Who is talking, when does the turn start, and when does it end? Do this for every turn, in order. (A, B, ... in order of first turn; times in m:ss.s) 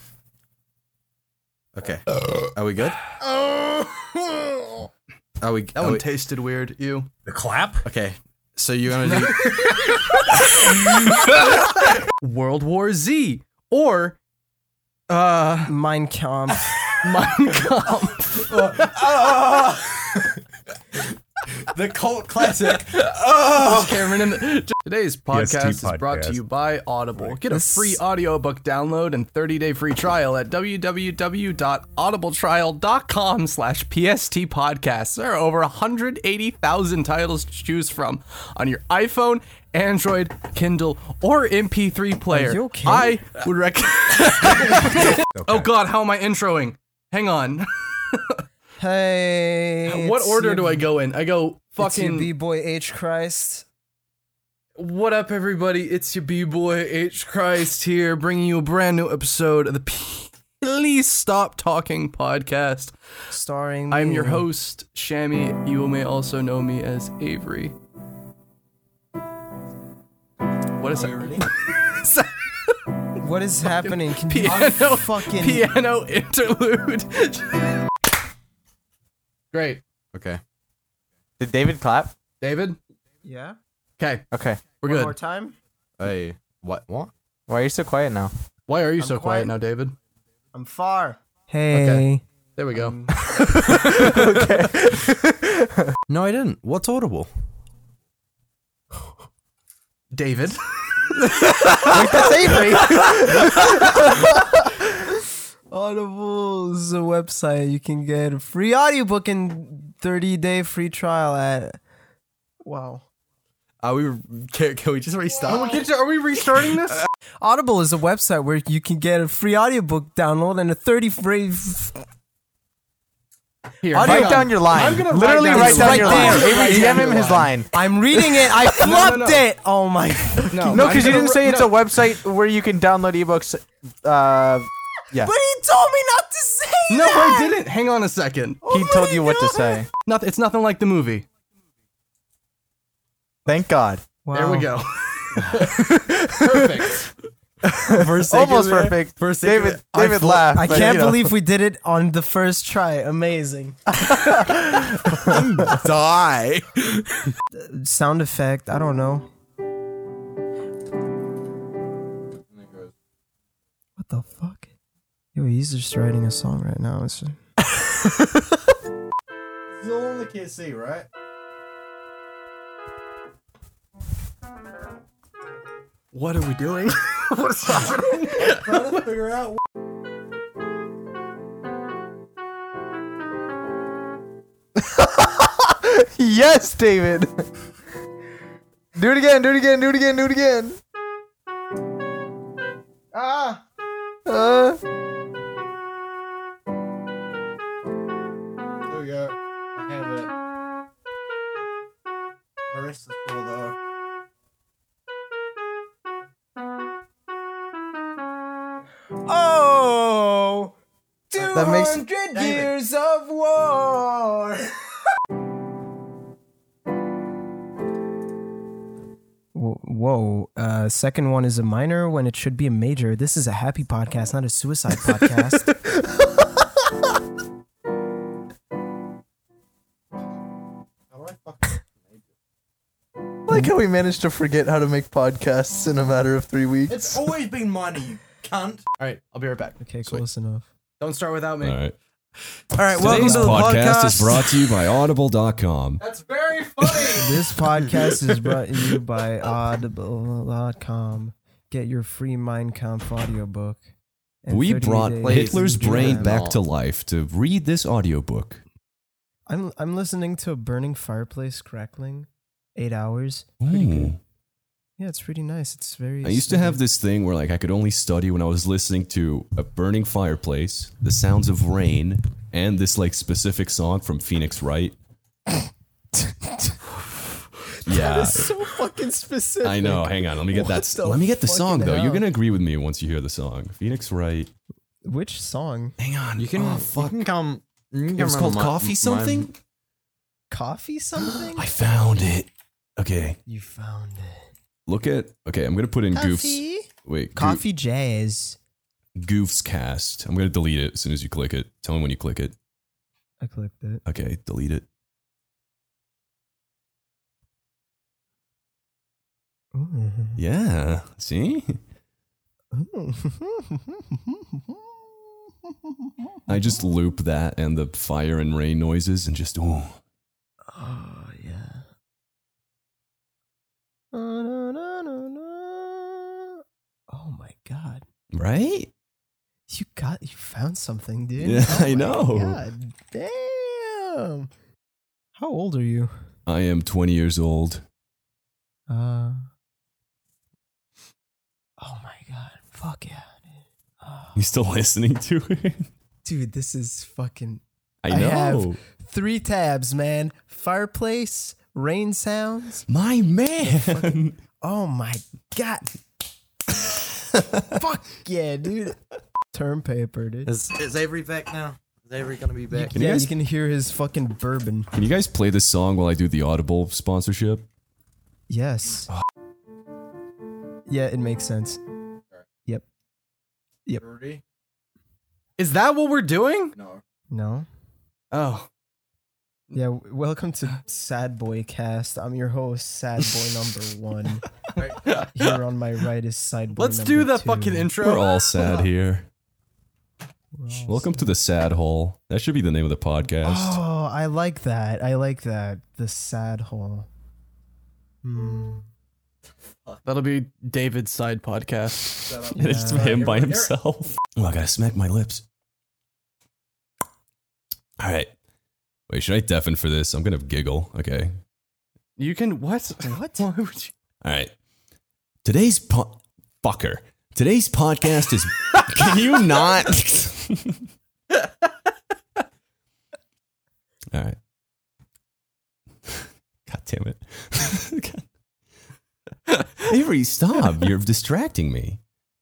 0:01.7-0:03.0 A
0:03.2-0:04.8 B
0:05.4-0:06.0 A
0:05.7-0:07.1 C
0:07.8-0:10.6 A
0:09.0-0:09.8 C
0:10.9-0:14.2 C
0:15.1-0:15.7 C
0:15.6-0:16.8 B
0:16.9-0:18.9 C
0:18.4-0:20.4 A
0:21.6-0:23.2 A
0:23.0-0:48.4 C
0:25.3-0:26.4 D
0:27.5-0:28.0 B
0:42.3-0:43.2 B
0:48.8-0:50.8 B
0:49.9-0:52.3 C
0:51.8-0:53.6 B
0:54.8-1:02.9 C
1:03.3-1:04.4 B
1:03.9-1:07.7 C
1:10.8-1:12.8 C
1:10.9-1:11.5 A
1:13.2-1:15.7 B
1:13.7-1:17.7 C
1:19.5-1:19.8 C
1:20.1-1:20.4 A
1:21.4-1:22.1 A
1:21.6-1:22.0 E
1:22.4-1:22.8 C
1:23.2-1:23.6 B
1:24.0-1:24.2 C
1:24.3-1:24.6 E
1:24.8-1:25.1 C
1:24.8-1:25.5 B
1:26.0-1:28.3 A
1:27.5-1:28.3 E
1:28.7-1:29.9 C
1:29.0-1:29.5 B
1:30.5-1:32.2 B
1:31.7-1:33.0 C
1:32.7-1:33.1 B
1:33.5-1:35.2 A
1:34.2-1:34.9 E
1:36.1-1:37.3 A
1:40.1-1:40.6 C
1:41.9-1:51.8 B
1:42.0-1:43.0 E
1:52.6-1:53.0 B
1:53.8-1:55.8 A
1:55.5-1:57.0 C
1:57.4-2:02.0 B
2:03.8-2:07.5 C
2:03.9-2:07.6 A
2:03.9-2:07.6 E
2:05.5-2:11.0 B
2:08.8-2:09.4 C
2:10.5-2:11.9 C
2:10.7-2:13.4 A
2:10.7-2:14.7 E
2:15.1-2:17.6 B
2:16.9-2:18.6 C
2:18.6-2:19.8 B
2:18.6-2:19.6 A
2:18.7-2:19.9 E
2:20.0-2:21.2 C
2:23.5-2:24.0 E
2:24.2-2:24.7 B
2:24.3-2:27.1 C
2:27.8-2:31.1 A
2:27.8-2:31.3 E
2:30.5-2:33.8 B
2:34.0-2:37.3 A
2:37.5-2:39.3 B
2:42.5-2:42.9 A
2:44.0-2:44.7 B
2:45.3-2:47.4 B
2:49.7-2:51.1 A
2:56.1-2:58.9 C
2:57.7-2:59.6 A
3:04.9-3:07.4 E
3:09.0-3:10.8 E
3:13.1-3:13.6 B
3:14.3-3:14.8 E
3:18.9-3:20.3 A
3:22.7-3:23.7 A
3:29.2-3:30.7 B
3:31.3-3:34.7 B
3:31.4-3:32.6 A
3:31.5-3:32.0 E
3:39.5-3:45.8 B
3:51.1-3:52.2 A
3:53.5-3:57.2 E
3:56.9-3:58.8 A
3:59.0-4:00.2 C
3:59.8-4:00.7 B
4:01.0-4:01.8 C
4:01.6-4:01.9 D
4:02.7-4:04.6 A
4:02.9-4:03.7 B
4:02.9-4:06.0 D
4:06.0-4:07.4 C
4:07.1-4:13.8 B
4:14.4-4:16.4 B
4:14.5-4:18.6 D
4:15.2-4:16.6 A
4:19.5-4:24.1 B
4:23.6-4:24.2 D
4:25.0-4:26.8 B
4:26.2-4:34.9 D
4:36.2-4:36.8 B
4:37.7-4:42.2 B
4:37.8-4:38.6 D
4:39.6-4:44.5 D
4:45.0-4:46.0 B
4:46.0-4:47.2 D
4:46.4-4:49.5 A
4:48.1-4:49.5 D
4:50.5-4:51.7 B
4:51.3-4:53.4 D
4:53.5-4:54.5 B
4:54.9-4:57.6 D
4:56.1-4:58.6 B
4:59.2-5:02.5 D
5:03.4-5:04.0 B
5:04.0-5:04.8 D
5:09.7-5:10.4 B
5:10.4-5:11.8 D
5:12.7-5:15.1 B
5:15.9-5:16.5 B
5:16.5-5:20.0 D
5:20.7-5:21.8 B
5:24.1-5:28.0 B
5:28.3-5:28.9 D
5:29.7-5:34.5 B
5:31.4-5:32.6 D
5:35.4-5:36.1 B
5:36.4-5:37.8 D
5:38.9-5:39.4 B
5:41.8-5:44.4 B
5:44.3-5:45.9 D
5:46.2-5:52.8 B
5:48.0-5:48.8 D
5:52.9-5:54.4 D
5:53.6-5:55.9 B
5:57.6-5:59.0 B
5:59.5-6:00.5 B
6:00.4-6:03.0 A
6:02.7-6:04.9 B
6:02.9-6:03.3 D
6:04.9-6:07.6 D
6:08.5-6:09.1 B
6:10.9-6:11.8 B
6:14.0-6:14.4 A
6:15.6-6:16.8 C
6:16.8-6:17.0 A
6:17.3-6:17.7 B
6:18.3-6:18.7 C
6:19.7-6:24.5 B
6:24.8-6:25.2 A
6:25.1-6:25.3 C
6:25.2-6:28.0 B
6:26.8-6:28.4 C
6:28.0-6:29.3 D
6:30.5-6:31.3 B
6:30.8-6:33.8 D
6:33.4-6:37.1 B
6:38.2-6:38.8 B
6:40.0-6:42.3 C
6:42.2-6:43.7 A
6:42.5-6:43.3 B
6:42.5-6:45.4 D
6:48.0-6:48.3 D
6:49.1-6:51.4 D
6:52.2-6:53.9 C
6:53.0-6:53.4 B
6:54.2-6:54.5 D
6:55.4-7:00.8 D
7:06.7-7:08.2 D
7:09.7-7:12.0 D